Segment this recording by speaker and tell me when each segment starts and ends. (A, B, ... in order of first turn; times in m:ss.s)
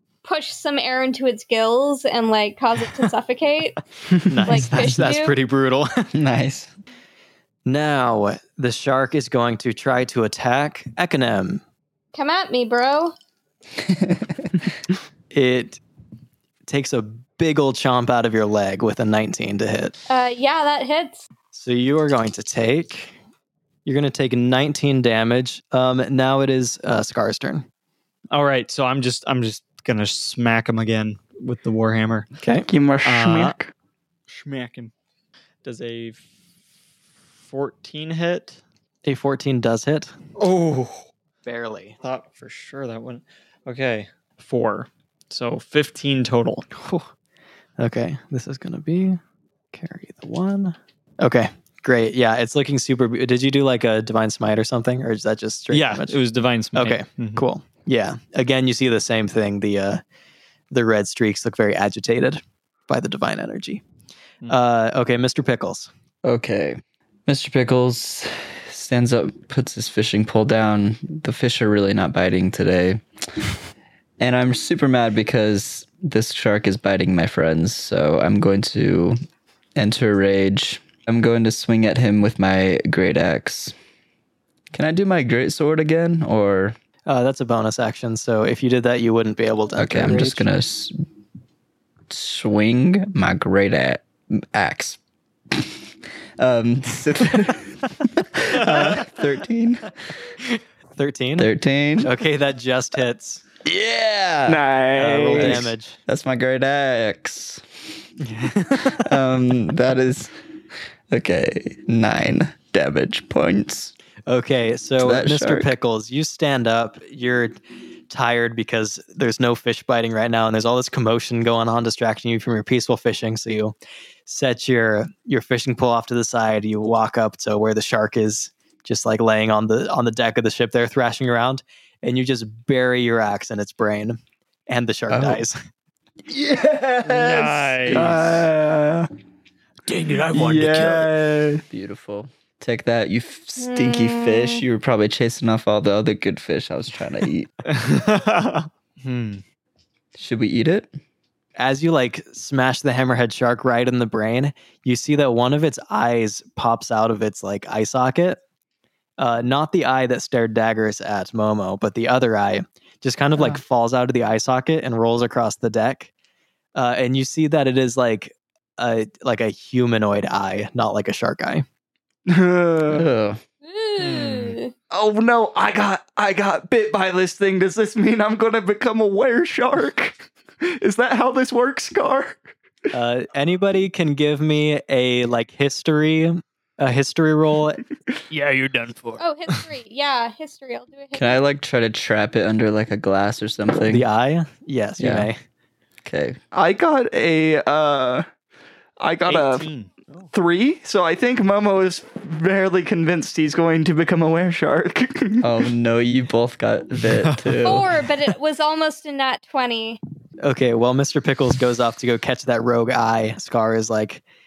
0:00.2-0:03.8 A
0:04.3-0:06.1 B
0:04.4-0:05.4 A
0:06.1-0:06.7 C
0:07.7-0:11.6 B
0:12.1-0:13.1 A
0:13.9-0:14.5 C
0:15.3-0:15.8 B
0:16.7-0:20.0 B
0:20.1-0:21.3 A
0:21.5-0:23.1 B
0:23.8-0:27.7 B
0:28.3-0:32.3 D
0:32.4-0:32.7 B
0:32.7-0:33.7 E
0:33.0-0:33.6 D
0:34.3-0:34.9 D
0:35.6-0:36.2 D
0:37.4-0:38.6 D
0:39.0-0:40.1 B
0:40.4-0:41.1 D
0:41.4-0:42.0 B
0:42.0-0:46.7 D
0:46.8-0:47.1 B
0:47.8-0:49.2 B
0:49.7-0:56.2 B
0:55.7-0:57.4 D
0:56.8-1:00.0 B
1:00.7-1:03.8 B
1:04.5-1:05.9 B
1:06.2-1:13.5 C
1:14.2-1:19.2 C
1:19.8-1:23.8 C
1:24.7-1:26.8 C
1:27.1-1:30.5 B
1:29.8-1:31.0 C
1:32.1-1:35.0 C
1:36.4-1:39.9 C
1:41.0-1:41.5 B
1:41.4-1:42.1 C
1:42.0-1:43.4 B
1:43.6-1:44.6 C
1:44.5-1:45.7 E
1:45.0-1:46.0 B
1:45.3-1:47.6 C
1:48.2-1:49.1 B
1:48.8-1:50.3 C
1:51.1-1:53.9 C
1:54.3-1:57.6 B
1:55.0-1:55.7 C
1:58.1-2:03.8 B
2:04.3-2:15.6 B
2:15.1-2:15.4 C
2:16.3-2:19.1 E
2:17.0-2:18.3 D
2:19.9-2:21.1 D
2:20.3-2:21.6 E
2:21.7-2:27.5 C
2:23.6-2:24.6 A
2:27.7-2:29.4 D
2:30.2-2:30.9 C
2:31.6-2:38.4 B
2:39.2-2:46.1 B
2:46.8-2:51.6 B
2:52.3-2:53.1 E
2:52.9-2:53.4 C
2:53.6-2:54.7 A
2:54.0-2:54.6 D
2:54.9-3:02.5 E
3:02.9-3:07.8 B
3:08.3-3:09.5 D
3:09.2-3:11.4 A
3:11.2-3:14.1 C
3:13.9-3:15.4 B
3:15.0-3:15.3 C
3:16.0-3:16.4 C
3:16.5-3:18.3 E
3:19.0-3:19.7 E
3:19.3-3:20.3 D
3:20.3-3:25.5 E
3:25.4-3:27.9 C
3:27.1-3:27.6 D
3:27.6-3:30.0 A
3:30.4-3:34.2 B